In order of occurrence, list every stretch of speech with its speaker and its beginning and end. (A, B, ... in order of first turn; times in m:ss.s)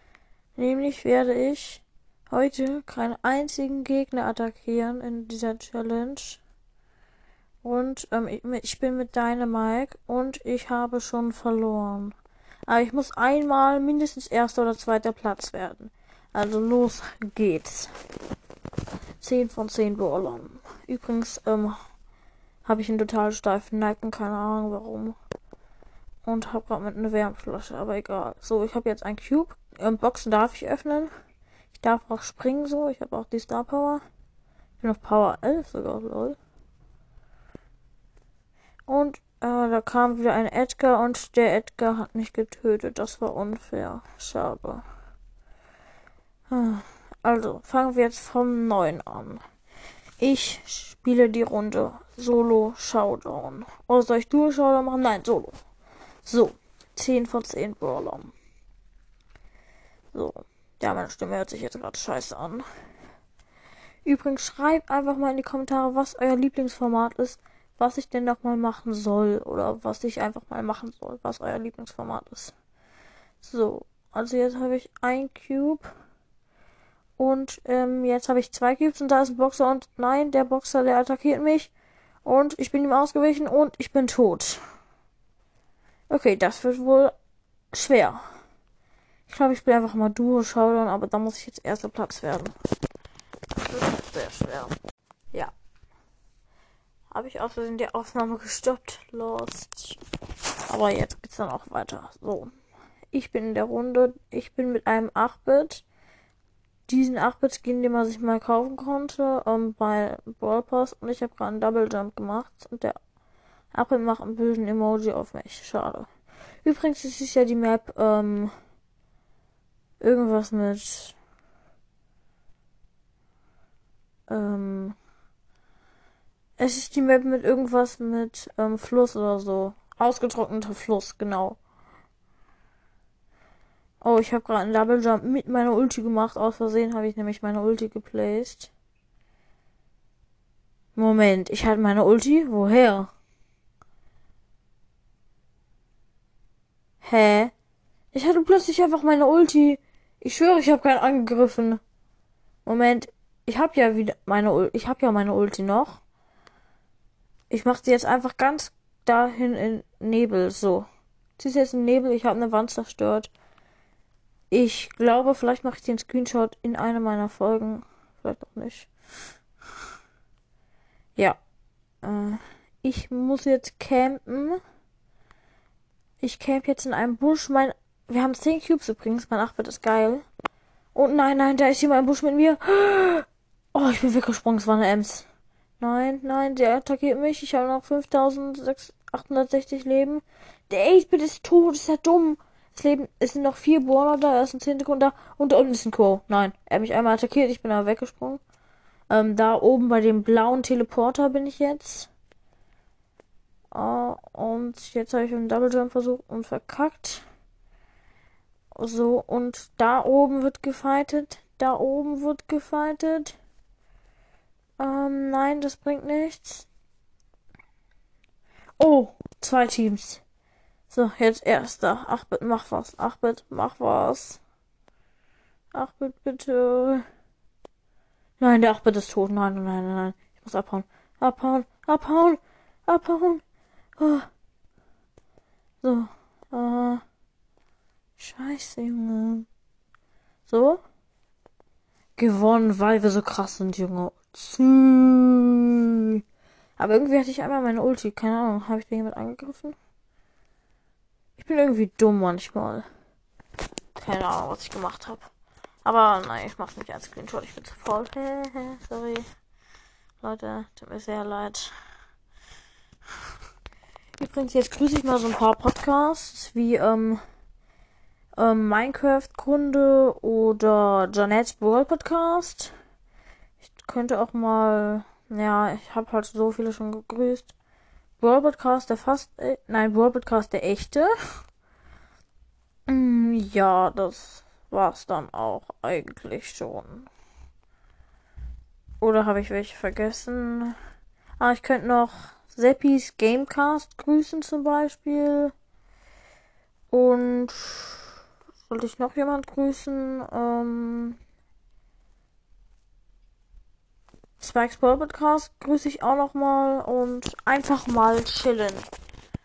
0:00.6-0:06.4 A
0:07.6-0:12.2 A
0:12.7-0:17.9 A
0:19.2-0:21.8 A
0:22.6-0:25.2 A
0:26.2-0:31.1 A
0:31.8-0:34.0 A
0:34.8-0:36.4 A
0:38.9-0:44.8 A
0:46.5-0:49.4 A
0:50.2-0:55.6 A
0:56.2-0:58.3 A
1:00.1-1:02.6 A
1:04.0-1:12.5 A
1:13.4-1:15.9 A
1:17.2-1:21.7 A
1:22.2-1:24.6 A
1:26.1-1:27.1 A
1:27.7-1:28.2 A
1:29.3-1:32.5 A
1:33.5-1:34.8 A
1:37.1-1:40.0 A
1:40.7-1:42.5 A
1:43.1-1:45.8 A
1:46.9-1:53.0 A
1:53.7-1:56.1 A
1:56.6-1:58.5 A
2:00.0-2:01.2 A
2:04.3-2:05.0 A
2:06.6-2:11.6 A
2:14.0-2:18.7 A
2:21.0-2:23.1 A
2:27.0-2:27.5 A
2:28.1-2:31.8 A
2:32.6-2:36.0 A
2:37.5-2:40.9 A
2:41.4-2:43.3 A
2:44.5-2:48.9 A
2:52.0-2:54.6 A
2:56.2-3:00.2 A
3:00.9-3:05.3 A
3:05.8-3:18.4 A
3:19.1-3:22.1 A
3:23.7-3:27.2 A
3:28.7-3:33.4 A
3:34.8-3:36.7 A
3:38.8-3:40.2 A
3:40.9-3:44.4 A
3:45.7-3:47.0 A
3:48.4-3:53.4 A
3:54.0-3:54.3 A
3:55.8-3:57.0 A
3:58.2-3:59.5 A
4:00.5-4:00.8 A
4:02.2-4:06.2 A
4:06.8-4:09.8 A
4:11.4-4:12.9 A
4:14.0-4:15.3 A
4:15.8-4:19.2 A
4:20.2-4:21.7 A
4:24.2-4:27.2 A
4:28.4-4:32.7 A
4:33.6-4:37.5 A
4:38.2-4:41.1 A
4:42.9-4:47.1 A
4:49.0-4:50.8 A
4:51.4-4:55.5 A
4:56.9-4:58.1 A
4:58.7-5:01.2 A
5:04.4-5:08.9 A